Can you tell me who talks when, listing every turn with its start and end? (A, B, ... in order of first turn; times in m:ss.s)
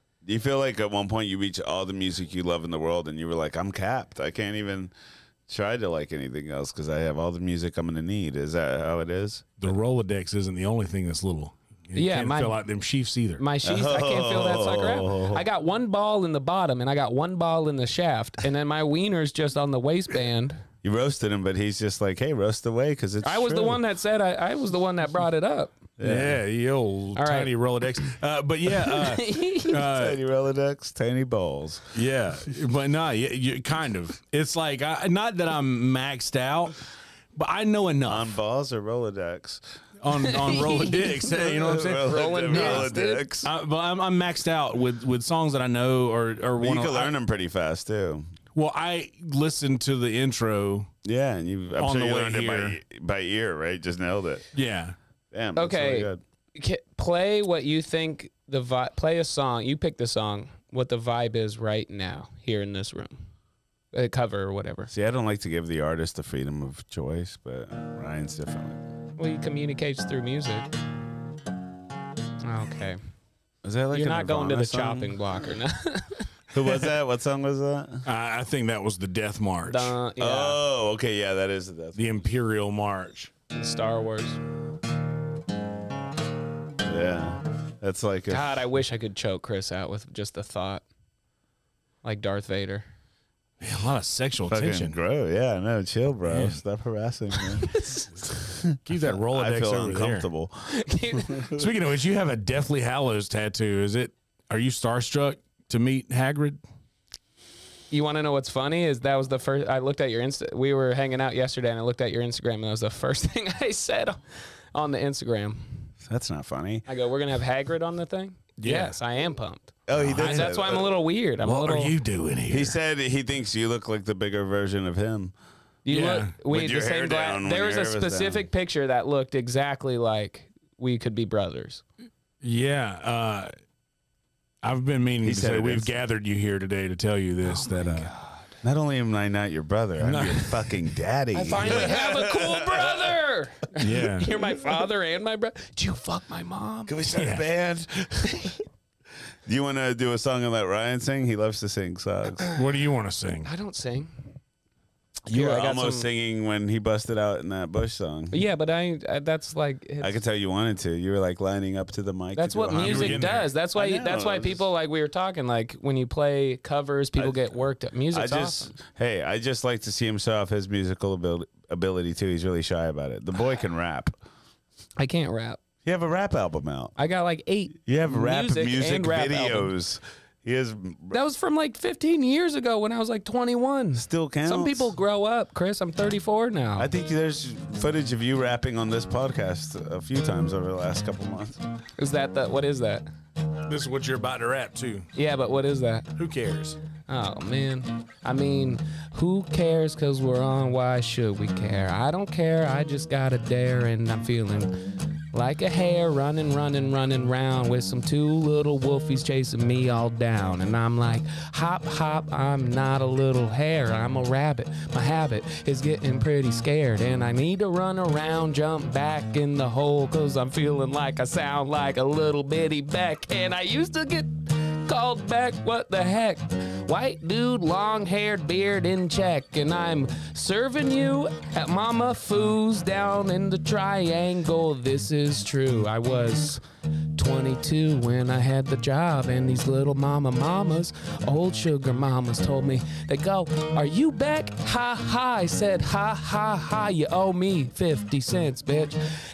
0:00.2-0:04.9 A
0:05.5-0:09.5 A
0:09.6-0:13.4 B
0:12.0-0:12.6 C
0:13.4-0:20.6 C
0:13.6-0:15.4 A
0:20.8-0:23.8 A
0:23.2-0:25.8 C
0:26.0-0:26.4 A
0:26.0-0:30.2 B
0:27.2-0:27.5 C
0:28.8-0:29.8 C
0:29.8-0:31.9 A
0:31.9-0:36.8 B
0:37.3-0:38.3 B
0:38.0-0:39.6 A
0:40.0-0:47.1 B
0:40.4-0:41.2 C
0:41.4-0:43.5 A
0:41.8-0:43.2 C
0:46.6-0:48.3 A
0:48.5-0:50.9 B
0:51.0-0:54.4 A
0:51.8-0:52.8 B
0:54.5-0:55.0 B
0:55.3-0:56.2 A
0:55.6-1:03.2 C
1:03.9-1:04.9 C
1:04.9-1:08.8 A
1:09.2-1:10.7 C
1:12.4-1:13.0 C
1:13.6-1:15.2 A
1:13.9-1:16.3 C
1:16.5-1:18.0 A
1:18.0-1:19.9 B
1:19.7-1:20.6 C
1:20.2-1:22.2 A
1:22.0-1:23.3 B
1:23.5-1:24.4 C
1:26.8-1:28.5 A
1:28.3-1:30.8 C
1:32.0-1:32.8 C
1:33.6-1:35.0 B
1:34.5-1:37.7 A
1:36.3-1:36.6 B
1:37.6-1:38.1 C
1:38.3-1:40.7 A
1:38.8-1:40.3 B
1:40.7-1:41.5 C
1:41.5-1:46.6 B
1:47.9-1:54.2 C
1:54.7-1:55.8 C
1:56.0-1:56.8 A
1:56.9-2:01.9 C
1:58.6-1:59.0 B
1:59.9-2:00.9 A
1:59.9-2:00.5 B
2:01.4-2:02.8 B
2:02.5-2:05.3 A
2:05.8-2:11.8 C
2:05.9-2:06.3 B
2:06.4-2:08.5 A
2:12.4-2:13.5 B
2:14.6-2:18.1 B
2:15.2-2:15.9 A
2:17.5-2:18.4 C
2:18.6-2:23.1 A
2:20.0-2:20.8 B
2:21.3-2:27.0 C
2:23.8-2:24.4 B
2:26.9-2:28.5 A
2:27.1-2:27.4 B
2:29.4-2:32.4 A
2:32.5-2:33.5 B
2:33.4-2:34.1 C
2:35.3-2:36.1 C
2:35.3-2:38.4 A
2:38.3-2:40.2 C
2:40.0-2:44.6 A
2:42.3-2:48.7 C
2:42.8-2:43.5 B
2:47.2-2:47.4 A
2:48.1-2:54.1 A
2:55.0-2:55.6 C
2:55.8-2:56.9 A
2:57.0-2:59.7 C
2:57.8-3:01.2 A
3:01.1-3:06.9 C
3:03.9-3:04.9 A
3:06.8-3:11.6 A
3:12.0-3:13.0 C
3:13.6-3:15.1 B
3:15.1-3:16.1 C
3:16.2-3:16.8 B
3:17.1-3:56.6 C
3:57.1-4:09.0 C